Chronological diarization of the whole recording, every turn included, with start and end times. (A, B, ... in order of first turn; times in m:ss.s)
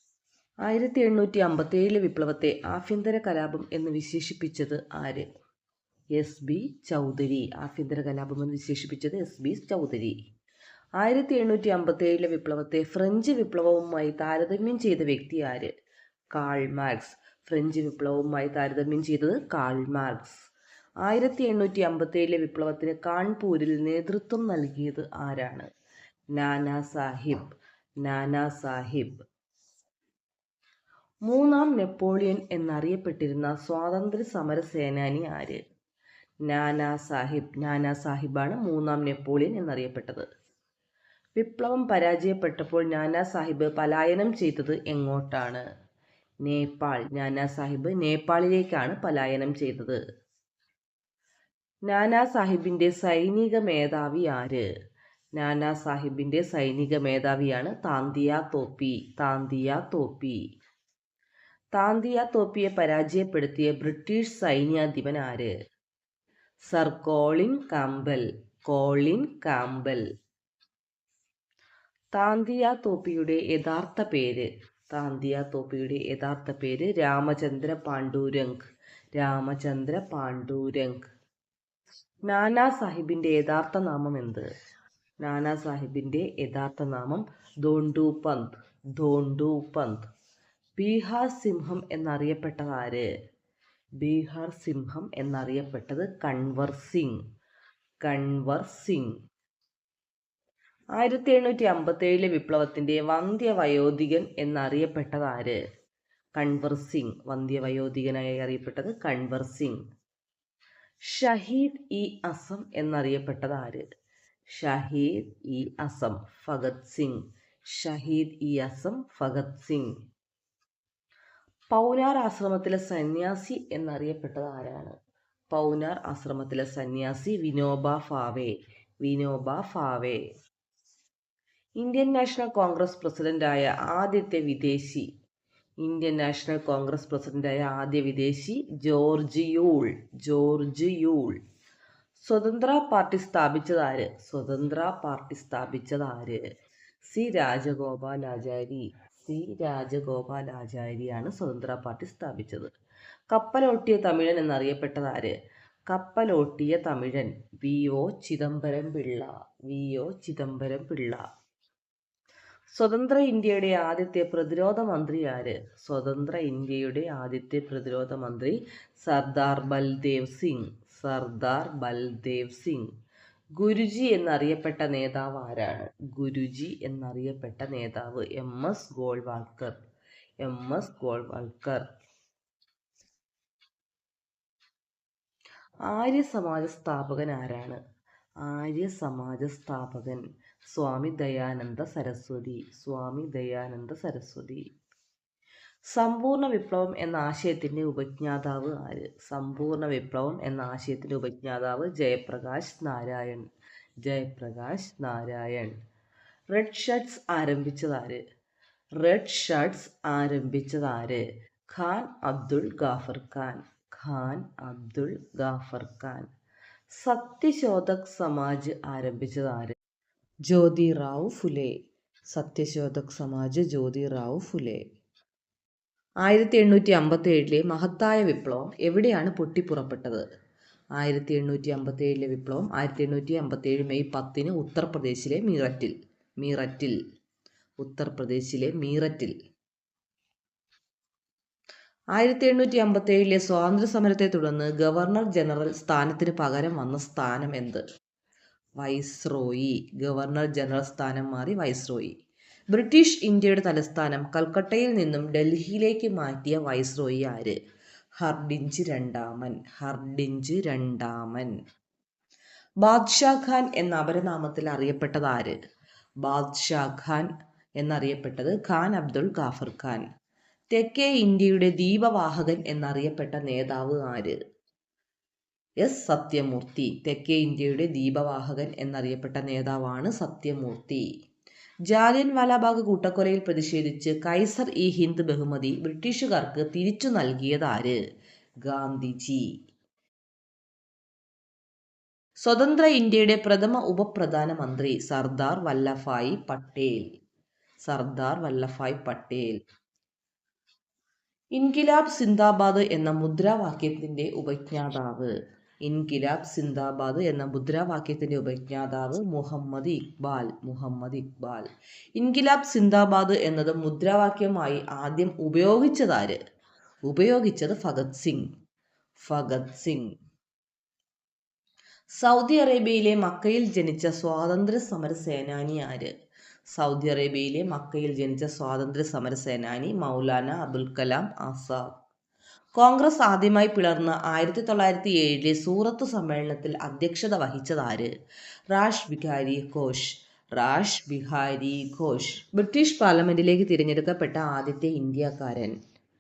0:00.6-0:05.3 A
0:06.1-0:10.2 A
0:11.0-0:15.7 A
0:16.3-0:20.4 A
0:21.0-0:25.7 A
0:26.3-0:29.2 A
0:31.2-0:35.6 A
0:36.4-0:40.2 A
0:41.4-0:45.6 A
0:46.4-0:50.0 A
0:51.8-0:54.7 A
0:55.3-1:00.4 A
1:01.7-1:05.5 A
1:06.7-1:10.0 A
1:12.1-1:18.6 A
1:19.1-1:21.0 A
1:22.2-1:24.5 A
1:25.2-1:30.0 A
1:30.8-1:33.1 A
1:34.0-1:37.2 A
1:38.0-1:39.1 A
1:40.9-1:45.6 A
1:46.3-1:49.8 A
1:51.0-1:53.8 A
1:54.5-1:59.9 A
2:01.7-2:05.0 A
2:05.5-2:10.2 A
2:11.8-2:15.1 A
2:15.8-2:21.4 A
2:22.2-2:26.4 A
2:27.1-2:32.7 A
2:33.3-2:35.4 A
2:35.9-2:41.2 A
2:42.7-2:52.9 A
2:53.6-2:59.8 A
3:00.4-3:01.8 A
3:05.8-3:07.8 A
3:08.4-3:14.7 A
3:15.9-3:23.5 A
3:24.0-3:25.8 A
3:26.5-3:28.2 A
3:29.0-3:36.3 A
3:36.9-3:39.7 A
3:40.5-3:41.8 A
3:42.3-3:44.8 A
3:46.2-3:50.2 A
3:51.0-3:57.0 A
3:57.8-3:59.3 A
4:02.1-4:07.8 A
4:08.8-4:12.1 A
4:12.7-4:17.6 A
4:18.2-4:21.5 A
4:22.8-4:25.6 A
4:26.2-4:27.3 A
4:27.8-4:30.0 A
4:30.7-4:34.4 A
4:35.8-4:41.1 A
4:41.9-4:48.0 A
4:48.6-4:49.5 A
4:52.4-4:57.0 A
4:57.8-4:59.6 A
5:01.5-5:05.3 A
5:05.8-5:16.4 A
5:17.0-5:18.5 A
5:19.2-5:20.1 A
5:22.1-5:26.1 A
5:26.7-5:31.9 A
5:32.8-5:38.1 A
5:38.7-5:45.8 A